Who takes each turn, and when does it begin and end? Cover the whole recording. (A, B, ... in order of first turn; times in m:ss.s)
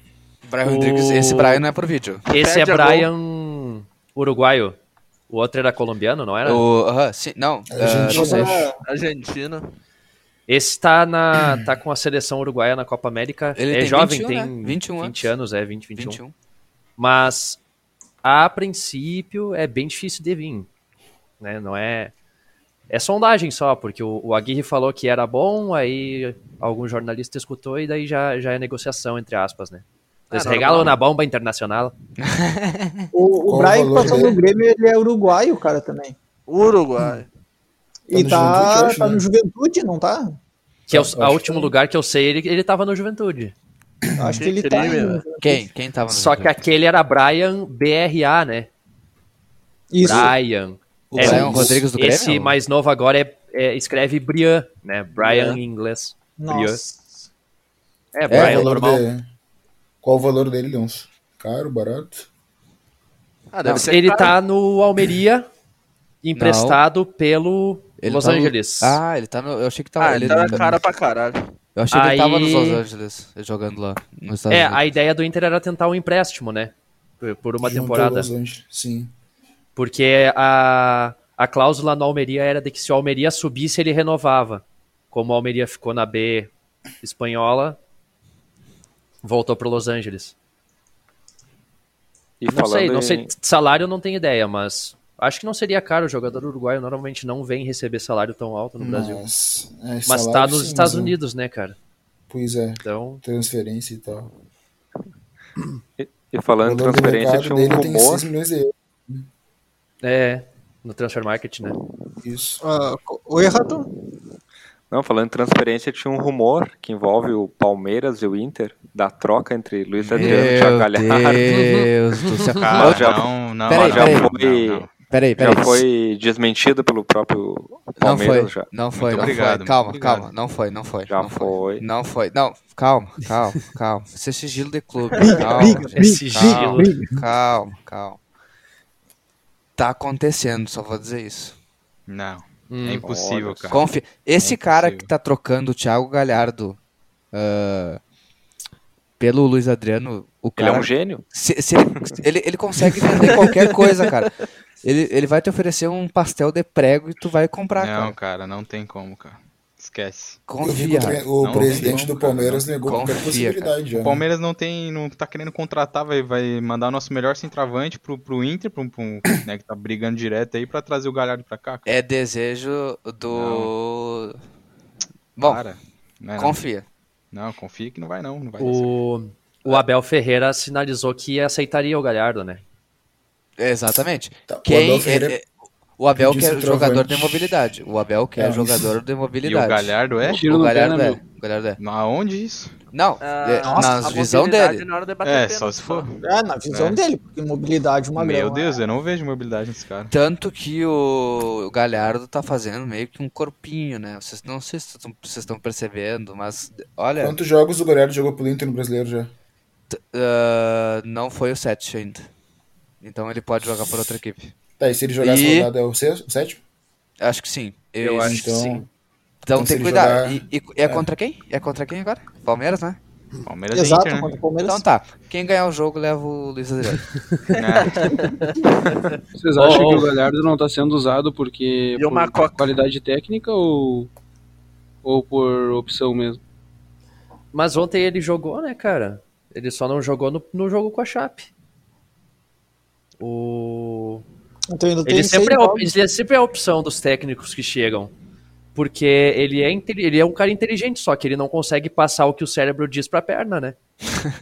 0:00.4-0:02.2 A
0:00.6-0:01.6 B
0:02.3-0:04.8 B
0:02.3-0:03.1 C
0:05.3-0:06.6 B
0:06.4-0:08.6 A
0:07.7-0:08.7 D
0:08.1-0:08.8 E
0:08.8-0:09.7 C
0:10.5-0:16.2 B
0:13.6-0:15.3 A
0:16.0-0:16.3 A
0:17.0-0:17.6 B
0:18.2-0:20.7 B
0:21.4-0:22.1 B
0:22.9-0:31.9 B
0:30.3-0:31.0 C
0:32.2-0:33.1 A
0:33.1-0:36.2 E
0:33.4-0:34.4 D
0:36.5-0:37.3 C
0:38.1-0:40.4 E
0:38.1-0:39.2 D
0:40.9-0:43.5 B
0:40.9-0:41.7 D
0:44.1-0:44.4 D
0:44.2-0:45.6 E
0:44.4-0:45.2 C
0:45.4-0:46.6 A
0:46.1-0:48.7 B
0:49.9-0:50.3 E
0:50.0-0:56.8 B
0:51.1-0:51.8 D
0:51.1-0:52.6 A
0:51.2-0:51.7 E
0:56.4-0:57.2 E
0:58.1-0:59.0 B
0:58.3-0:59.2 D
0:58.3-0:58.7 A
1:00.0-1:02.3 D
1:03.5-1:04.4 C
1:03.7-1:05.5 B
1:06.2-1:09.0 B
1:06.3-1:06.8 A
1:08.0-1:10.8 A
1:10.0-1:11.4 C
1:11.7-1:14.8 A
1:11.9-1:12.8 B
1:14.5-1:18.3 B
1:17.6-1:19.1 D
1:19.8-1:26.5 B
1:27.0-1:27.8 B
1:29.2-1:30.3 B
1:32.4-1:33.3 F
1:32.5-1:39.2 B
1:38.8-1:41.2 D
1:40.0-1:41.8 B
1:42.3-1:44.3 D
1:42.8-1:43.2 B
1:46.0-1:48.3 F
1:46.6-1:49.2 D
1:50.0-1:51.8 B
1:52.2-1:52.6 D
1:52.6-1:53.9 E
1:54.9-2:01.5 F
2:00.1-2:04.3 A
2:01.5-2:01.9 B
2:02.4-2:04.9 G
2:02.8-2:08.7 F
2:05.1-2:05.8 A
2:08.0-2:18.2 A
2:08.9-2:10.3 G
2:11.1-2:11.8 F
2:15.2-2:17.2 E
2:15.7-2:16.9 B
2:19.8-2:21.5 A
2:22.1-2:23.8 G
2:22.7-2:23.0 B
2:23.0-2:23.8 F
2:23.7-2:26.8 A
2:24.4-2:25.1 G
2:27.3-2:28.0 A
2:29.2-2:34.3 A
2:30.6-2:31.2 F
2:34.8-2:38.2 A
2:37.8-2:40.4 G
2:40.5-2:42.1 A
2:40.6-2:44.2 D
2:41.4-2:42.6 G
2:42.8-2:43.7 A
2:44.0-2:51.9 G
2:51.9-2:54.4 A
2:53.3-2:53.7 G
2:55.4-2:55.6 A
2:55.4-2:56.6 G
2:56.4-2:56.8 A
2:57.3-2:58.9 G
2:58.6-3:02.6 B
3:03.6-3:05.4 A
3:04.5-3:05.4 D
3:06.0-3:11.8 A
3:06.2-3:07.5 D
3:08.4-3:08.9 D
3:09.4-3:10.5 G
3:10.2-3:11.2 H
3:11.8-3:12.7 G
3:12.9-3:14.8 A
3:13.2-3:16.2 C
3:13.6-3:14.2 E
3:15.2-3:16.1 G
3:16.2-3:18.8 E
3:16.7-3:17.0 G
3:18.1-3:20.1 G
3:20.1-3:27.4 A
3:27.2-3:29.3 D
3:29.9-3:32.3 A
3:33.0-3:34.5 A
3:34.8-3:36.6 D
3:35.2-3:35.7 A
3:37.2-3:38.6 A
3:38.0-3:38.8 B
3:38.2-3:38.8 D
3:39.4-3:43.0 A
3:39.5-3:41.0 D
3:43.4-3:44.4 G
3:43.7-3:44.8 E
3:44.6-3:47.0 A
3:47.5-3:49.2 C
3:47.6-3:48.2 G
3:49.3-3:54.1 H
3:49.5-3:50.1 B
3:51.9-3:52.7 C
3:55.0-3:56.4 H
3:57.5-4:01.5 B
4:03.2-4:04.2 B
4:04.7-4:05.9 E
4:05.0-4:08.1 B
4:08.7-4:13.8 B